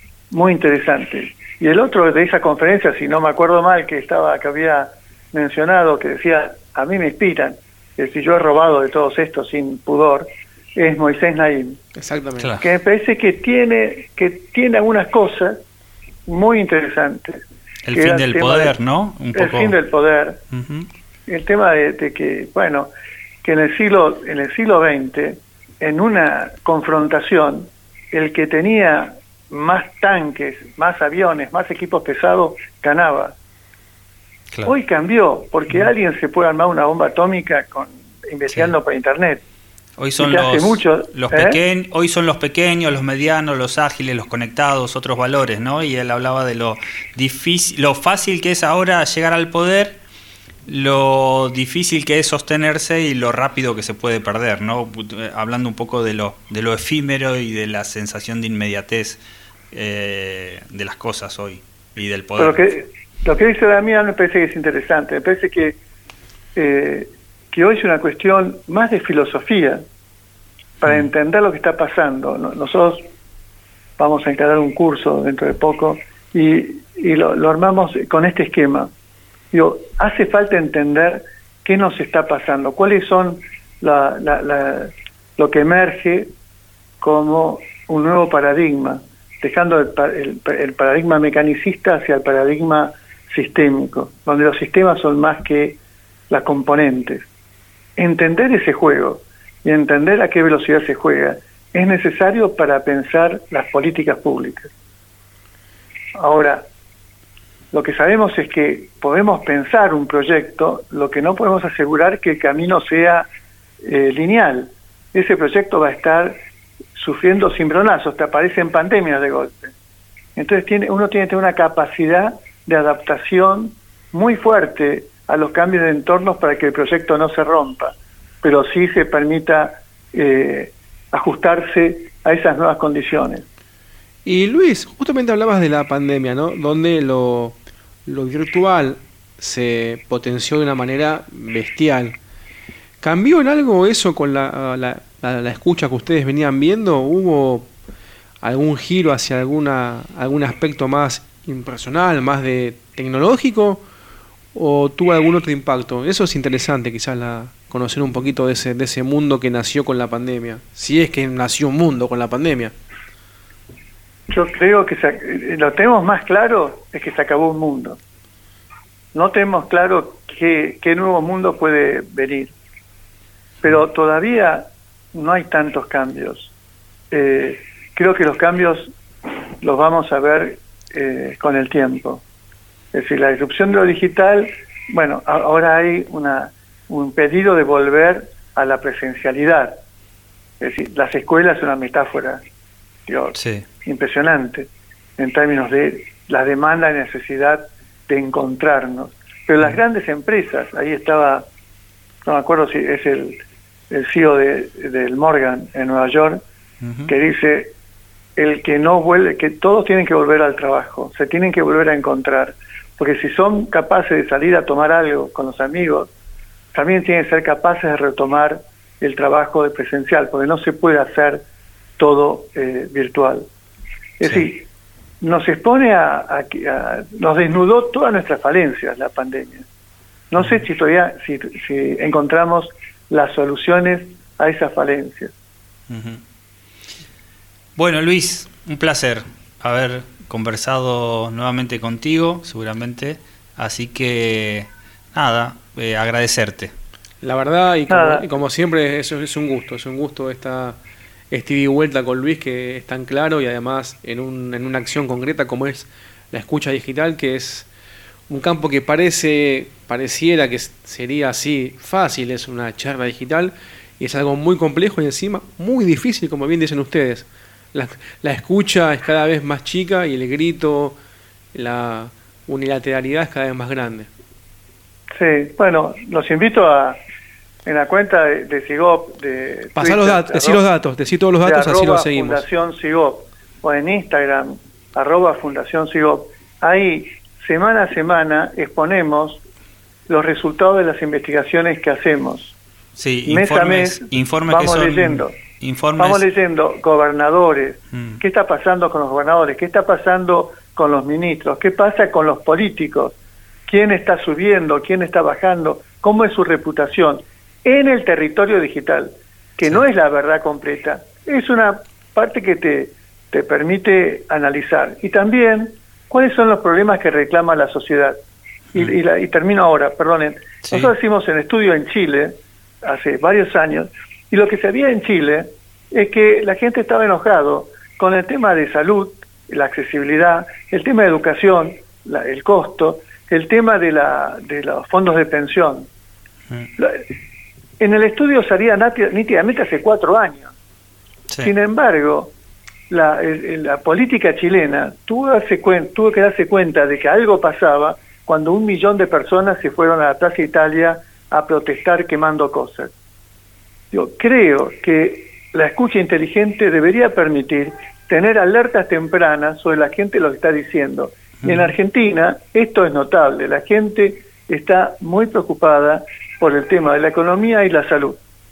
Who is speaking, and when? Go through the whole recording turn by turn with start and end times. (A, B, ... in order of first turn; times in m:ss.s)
0:00.3-0:11.8 A
0:12.0-0:12.5 B
0:12.4-0:12.7 C
0:12.6-0:15.6 A
0:16.3-0:18.8 A
0:17.8-0:19.8 C
0:19.3-0:20.4 A
0:20.5-0:20.9 C
0:21.3-0:22.9 A
0:23.4-0:33.4 A
0:34.6-0:39.4 A
0:40.0-0:50.0 C
0:40.2-0:41.6 A
0:50.7-1:02.7 C
1:02.4-1:05.8 A
1:06.6-1:09.8 A
1:10.8-1:13.1 A
1:14.0-1:18.9 A
1:19.5-1:26.3 A
1:27.0-1:35.8 A
1:36.3-1:37.3 A
1:38.0-1:44.7 A
1:46.2-1:46.7 A
1:47.7-1:53.3 A
1:53.8-1:56.4 A
1:57.0-1:59.7 A
2:00.4-2:13.5 A
2:14.2-2:22.2 B
2:23.0-2:27.7 B
2:28.4-2:33.8 B
2:34.5-2:42.7 B
2:44.3-2:48.0 A
2:49.1-2:52.6 A
2:53.6-2:56.5 A
2:57.1-2:58.9 A
2:59.6-3:02.2 A
3:02.9-3:09.8 A
3:10.6-3:12.4 A
3:13.1-3:21.5 A
3:13.4-3:13.7 C
3:22.2-3:26.4 A
3:26.8-3:27.1 C
3:27.1-3:27.7 A
3:28.4-3:36.1 A
3:36.7-3:41.5 A
3:42.0-3:43.5 A
3:44.2-3:44.7 A
3:45.2-3:49.7 A
3:50.3-3:55.3 A
3:55.9-3:56.2 C
3:57.8-4:06.7 C
4:07.2-4:10.8 B
4:07.9-4:08.3 A
4:11.3-4:17.7 B
4:18.3-4:31.0 B
4:31.5-4:34.1 B
4:35.1-4:37.0 A
4:37.6-4:40.6 A
4:39.8-4:42.4 B
4:41.4-4:49.4 A
4:50.1-4:52.6 A
4:53.0-4:56.2 C
4:53.3-4:55.4 A
4:56.0-5:03.2 A
4:57.9-4:58.2 C
5:03.7-5:18.2 A
5:18.7-5:35.9 A
5:20.6-5:20.9 C
5:36.8-5:37.1 A
5:37.8-5:40.5 A
5:41.4-5:42.3 A
5:42.9-5:52.9 A
5:53.9-6:08.2 A
6:01.4-6:01.7 C